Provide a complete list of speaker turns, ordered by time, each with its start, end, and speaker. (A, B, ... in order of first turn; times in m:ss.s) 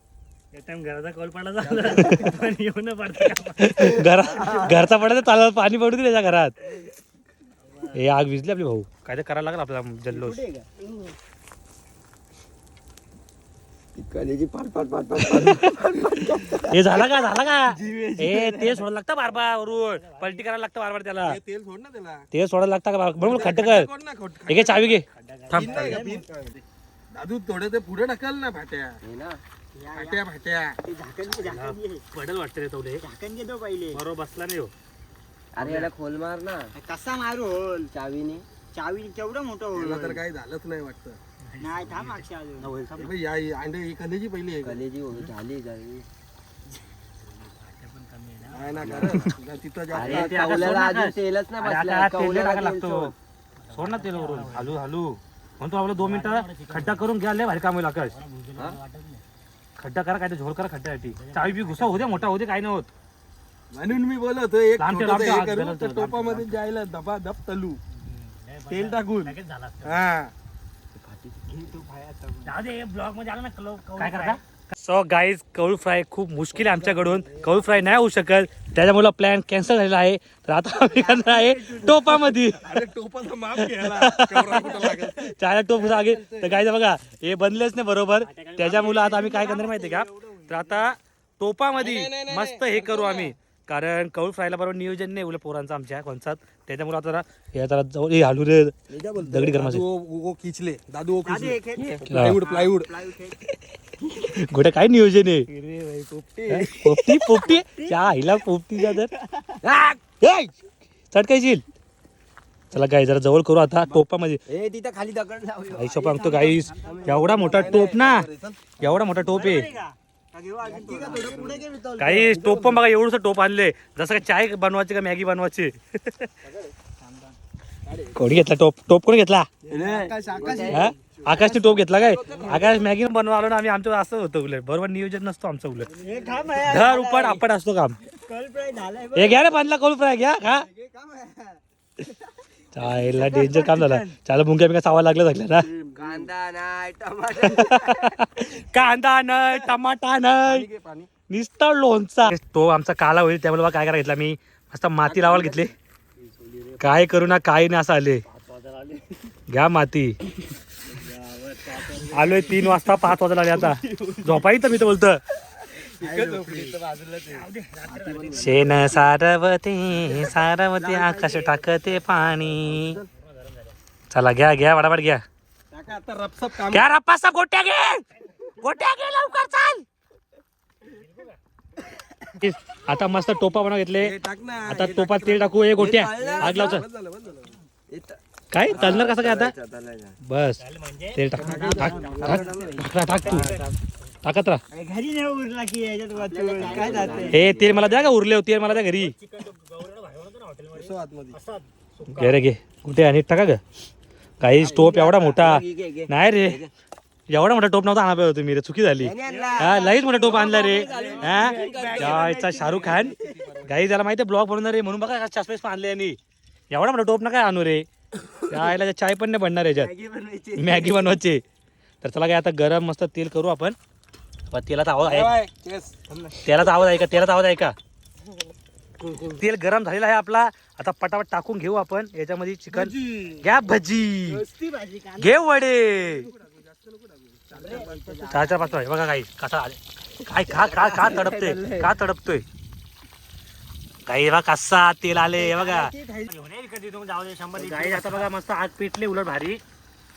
0:00.5-0:04.7 A
0:01.6-0:02.3 B
0:01.8-0:02.3 C
0:03.6-0:06.5 C
0:07.9-0:10.4 C
0:14.0-0:17.0 D
0:15.2-0:21.4 C
0:17.9-0:18.4 B
0:19.4-0:20.4 A
0:21.2-0:22.2 B
0:22.3-0:23.9 C
0:23.2-0:25.0 B
0:24.5-0:26.0 C
0:25.1-0:25.8 A
0:25.5-0:26.4 B
0:25.6-0:26.3 E
0:27.1-0:29.0 B
0:29.0-0:29.4 D
0:29.8-0:30.2 E
0:29.9-0:30.8 B
0:30.8-0:31.7 E
0:31.2-0:33.0 C
0:31.3-0:31.8 A
0:33.0-0:34.0 E
0:33.9-0:34.7 C
0:35.5-0:36.7 D
0:36.8-0:37.9 E
0:37.9-0:38.4 D
0:38.8-0:40.2 E
0:39.8-0:41.2 B
0:41.5-0:42.6 A
0:41.6-0:42.7 E
0:42.6-0:43.0 C
0:43.0-0:44.8 B
0:44.6-0:46.0 D
0:47.1-0:49.2 A
0:48.5-0:50.5 B
0:48.8-0:49.3 D
0:49.9-0:53.1 D
0:50.0-0:53.1 C
0:53.6-0:54.7 A
0:53.7-0:58.2 C
0:56.0-0:57.0 A
0:58.1-0:59.2 A
0:59.8-1:02.9 C
1:01.1-1:02.3 A
1:03.7-1:07.8 B
1:04.8-1:06.5 C
1:07.9-1:10.0 A
1:08.7-1:10.3 B
1:10.9-1:11.9 D
1:12.4-1:14.4 A
1:14.0-1:22.8 C
1:21.1-1:21.9 E
1:22.6-1:25.3 B
1:23.6-1:39.8 C
1:26.1-1:26.5 B
1:28.2-1:29.9 A
1:31.8-1:33.3 B
1:38.9-1:43.1 B
1:41.2-1:43.4 E
1:42.1-1:42.4 C
1:44.2-1:45.5 C
1:45.5-1:46.7 D
1:46.5-1:49.1 C
1:49.6-1:50.1 D
1:51.1-1:51.6 C
1:52.7-1:54.4 C
1:54.5-1:55.9 D
1:55.7-1:58.3 C
1:55.9-1:57.6 E
1:56.9-1:57.4 D
1:57.5-1:59.5 B
1:58.8-1:59.7 C
1:59.3-1:59.9 E
2:00.4-2:01.3 D
2:00.6-2:02.2 E
2:00.8-2:02.8 B
2:02.0-2:06.3 C
2:07.8-2:08.2 B
2:08.1-2:09.5 C
2:09.7-2:09.9 B
2:09.7-2:10.9 D
2:09.7-2:11.4 E
2:10.7-2:15.9 C
2:11.5-2:12.8 B
2:16.0-2:17.4 E
2:16.6-2:18.0 C
2:18.3-2:19.3 E
2:19.1-2:20.7 C
2:20.9-2:21.4 E
2:21.0-2:21.3 D
2:22.7-2:25.7 C
2:23.2-2:24.0 E
2:25.6-2:26.3 B
2:25.9-2:28.2 D
2:27.3-2:30.7 C
2:30.4-2:31.1 B
2:31.3-2:35.7 C
2:35.2-2:35.6 B
2:36.8-2:38.2 C
2:38.3-2:39.1 A
2:39.5-2:40.2 C
2:41.0-2:42.7 A
2:42.0-2:45.2 C
2:46.0-2:47.4 B
2:46.0-2:46.8 D
2:47.3-2:48.7 A
2:47.9-2:48.5 D
2:48.4-2:53.0 C
2:54.1-2:55.2 C
2:55.8-2:56.8 B
2:56.6-2:59.8 C
3:00.9-3:01.4 A
3:02.4-3:06.8 C
3:04.0-3:07.5 B
3:06.0-3:06.6 D
3:07.9-3:08.2 D
3:08.5-3:09.5 C
3:08.7-3:10.2 D
3:10.2-3:10.6 C
3:10.6-3:12.5 A
3:11.1-3:13.6 C
3:11.4-3:12.7 E
3:11.4-3:12.1 B
3:12.0-3:12.8 D
3:13.2-3:13.7 A
3:13.4-3:13.7 D
3:14.2-3:14.6 C
3:14.7-3:17.5 E
3:16.1-3:17.9 D
3:16.2-3:17.9 A
3:17.3-3:19.1 C
3:18.8-3:22.4 A
3:20.7-3:21.4 B
3:22.1-3:23.6 C
3:24.4-3:26.6 C
3:24.6-3:26.7 D
3:27.3-3:36.2 C
3:29.0-3:32.1 D
3:29.3-3:29.6 B
3:29.7-3:32.9 E
3:30.2-3:33.8 B
3:36.7-3:37.9 C
3:38.5-3:39.9 C
3:39.8-3:41.0 E
3:40.6-3:41.4 C
3:42.0-3:43.8 C
3:44.5-3:45.3 C
3:45.0-3:46.0 B
3:46.4-3:47.7 C
3:49.1-3:54.4 C
3:54.3-3:55.3 E
3:55.2-3:56.3 C
3:56.1-3:58.4 B
3:57.5-3:58.6 E
3:58.3-4:02.4 C
4:00.5-4:01.8 D
4:04.0-4:05.9 C
4:05.4-4:06.3 E
4:06.3-4:08.3 A
4:07.5-4:09.6 C